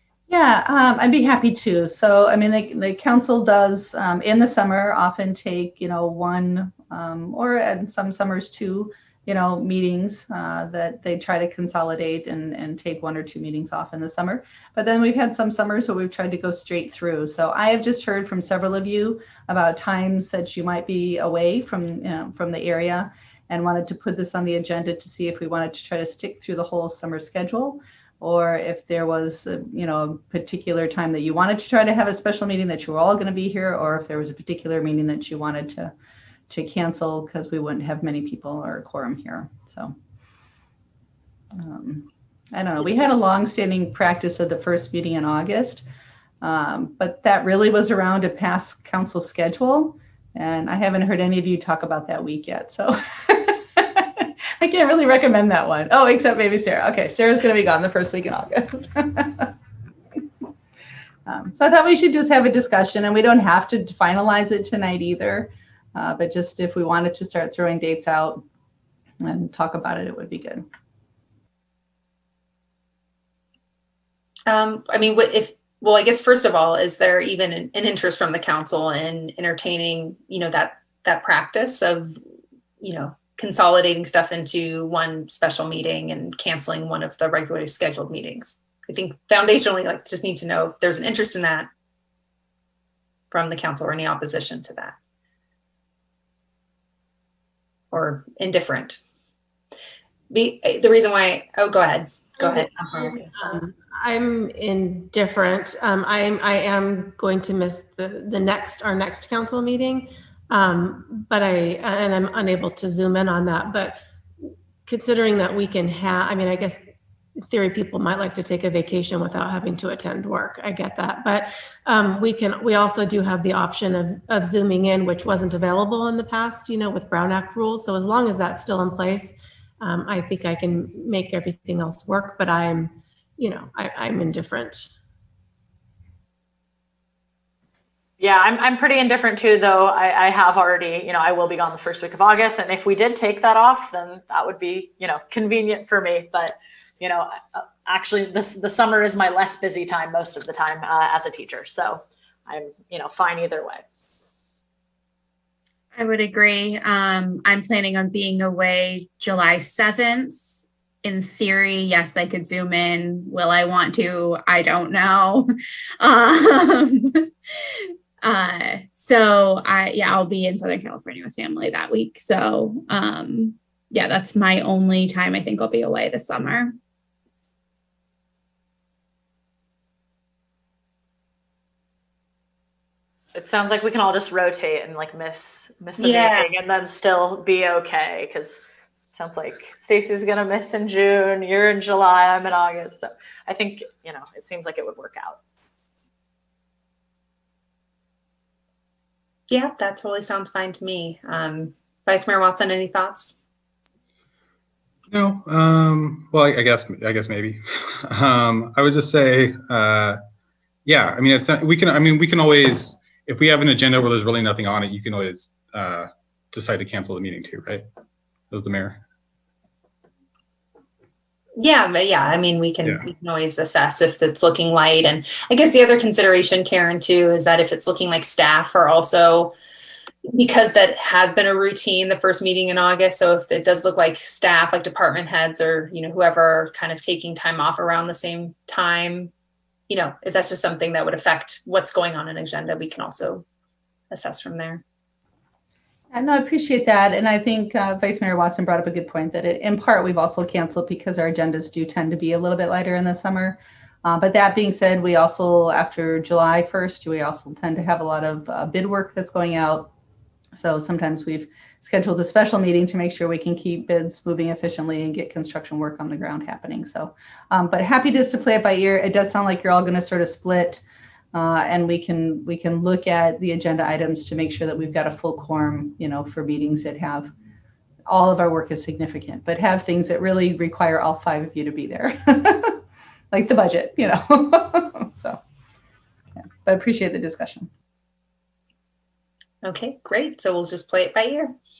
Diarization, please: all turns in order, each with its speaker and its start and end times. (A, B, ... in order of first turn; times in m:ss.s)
0:00.3-0:35.9 A
0:36.5-0:39.9 A
0:41.6-0:45.8 A
0:46.4-0:59.5 A
1:01.3-1:08.4 A
1:09.2-1:10.7 A
1:14.5-1:22.2 B
1:22.8-1:31.7 B
1:33.3-1:35.0 B
1:37.9-1:39.0 B
1:40.3-1:43.5 B
1:42.4-1:56.8 C
1:57.5-2:14.9 C
2:18.2-2:33.8 D
2:36.0-2:45.5 E
2:46.0-2:47.3 E
2:48.2-2:56.8 E
3:03.3-3:08.6 D
3:06.0-3:06.5 B
3:09.1-3:15.4 D
3:19.5-3:23.4 B
3:25.1-3:30.2 F
3:30.9-3:37.8 F
3:38.5-3:39.0 F
3:41.6-3:49.5 B
3:50.3-3:59.3 B
3:59.9-4:03.4 B
4:04.1-4:04.8 B
4:06.1-4:19.9 A
4:20.6-4:30.8 A
4:31.3-4:37.3 A
4:38.1-4:42.8 A
4:43.3-4:45.4 A
4:46.6-4:47.7 A
4:49.6-4:51.5 B